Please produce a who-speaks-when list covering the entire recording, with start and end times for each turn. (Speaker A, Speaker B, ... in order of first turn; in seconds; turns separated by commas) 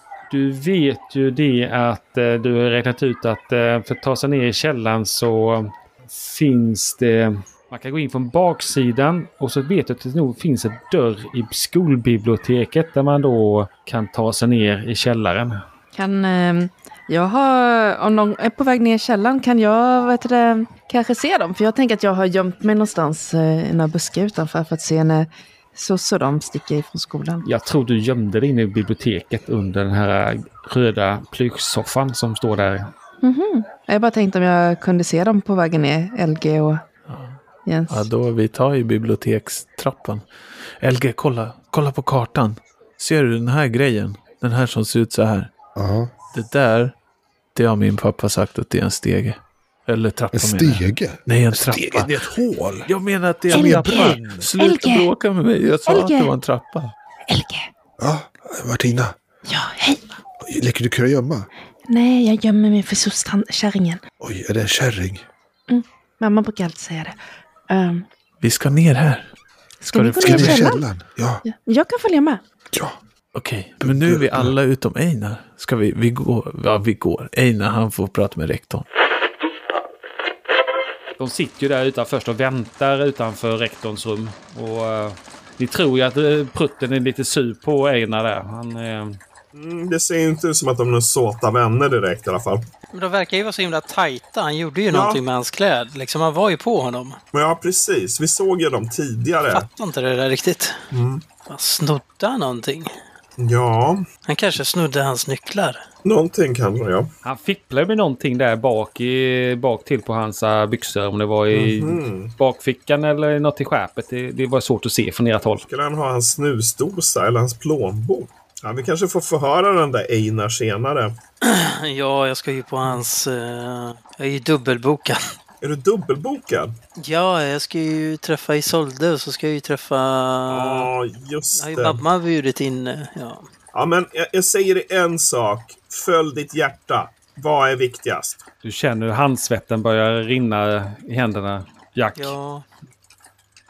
Speaker A: 0.3-15.6, Speaker B: 15.9-27.4, Speaker A: 27.4-32.9, Speaker B: 33.2-36.8, Speaker C: 37.1-40.2, Speaker B: 37.6-38.1, Speaker C: 40.8-45.5, Speaker D: 45.7-46.1, Speaker C: 46.3-46.9, Speaker C: 47.5-52.1, Speaker D: 50.3-52.9, Speaker C: 52.9-56.9, Speaker D: 53.5-54.5, Speaker B: 53.5-55.1, Speaker B: 55.9-56.3, Speaker B: 57.3-57.7, Speaker D: 58.0-59.1, Speaker B: 59.5-60.1, Speaker D: 60.4-61.5, Speaker B: 61.9-64.0, Speaker D: 64.2-65.2, Speaker B: 65.7-67.2, Speaker B: 67.7-68.0, Speaker C: 68.4-69.3, Speaker B: 69.8-70.8, Speaker C: 69.9-70.7, Speaker D: 70.2-71.4, Speaker B: 71.4-72.4, Speaker C: 73.3-78.8, Speaker D: 73.8-74.5, Speaker A: 81.2-89.2, Speaker E: 89.5-92.7, Speaker F: 92.9-97.2, Speaker E: 94.9-95.2, Speaker E: 97.3-99.7, Speaker F: 99.5-100.8, Speaker E: 100.9-101.2, Speaker F: 101.5-102.9, Speaker E: 103.4-104.0, Speaker F: 104.3-105.8, Speaker E: 106.0-107.1, Speaker A: 107.2-115.6, Speaker E: 111.5-112.3, Speaker E: 115.7-121.2, Speaker F: 121.4-125.2, Speaker E: 125.6-126.8, Speaker F: 127.0-130.9, Speaker E: 130.5-132.0, Speaker F: 131.6-133.5, Speaker E: 133.7-138.4, Speaker A: 138.6-142.3, Speaker F: 142.2-142.6